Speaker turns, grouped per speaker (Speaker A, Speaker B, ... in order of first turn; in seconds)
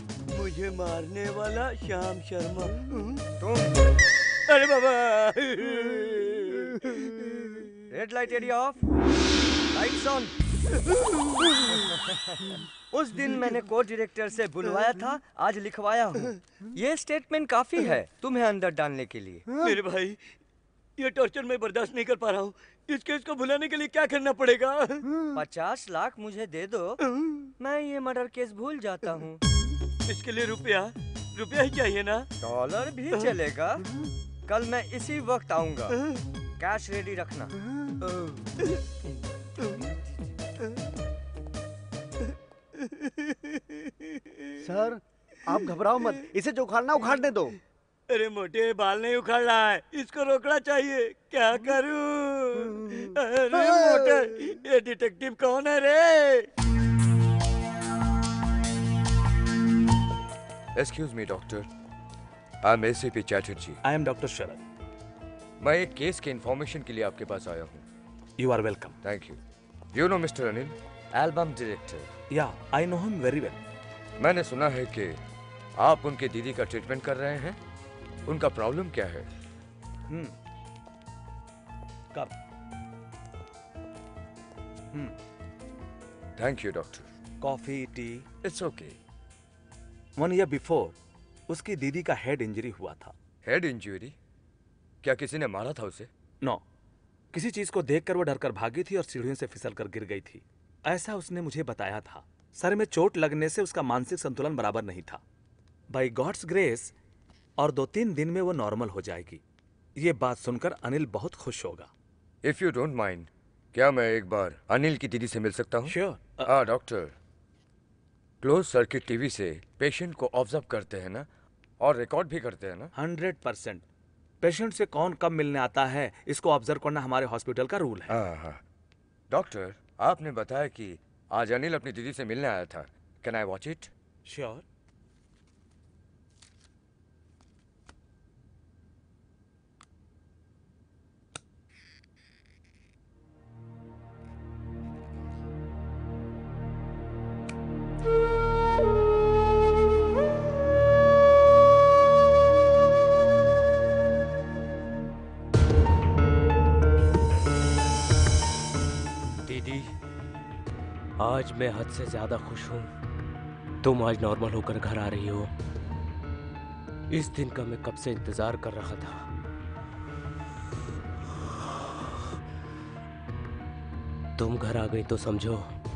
Speaker A: 0.3-3.0, 4.5-7.1, 19.6-20.2, 21.0-25.1, 30.1-32.3, 48.1-56.5
Speaker B: 3.4-3.8, 7.9-8.8, 9.7-10.3, 11.9-12.4, 12.9-19.4, 25.4-27.0, 27.6-29.4, 32.4-33.8, 34.5-36.0, 36.6-37.5
Speaker C: 25.1-25.4, 44.6-47.6, 52.7-54.3
Speaker D: 60.8-61.7, 62.6-63.8, 65.6-67.9, 69.0-69.4, 69.9-72.1, 74.2-75.2, 75.8-77.6, 78.3-79.3, 86.4-87.1, 88.4-89.0, 93.5-94.2, 95.0-96.1, 112.4-117.2, 118.4-121.3, 121.8-122.9, 128.1-128.6, 129.3-133.9
Speaker E: 63.8-64.6, 68.4-69.0, 72.3-73.6, 80.1-80.3, 87.4-88.2, 90.2-91.0, 91.5-93.1, 97.3-105.2, 105.9-106.9, 107.6-109.4, 110.0-111.9, 115.9-116.5, 123.0-123.8, 124.4-128.1, 134.3-134.6
Speaker F: 159.4-159.9, 161.2-162.9, 163.8-165.5, 167.1-169.3, 174.4-175.7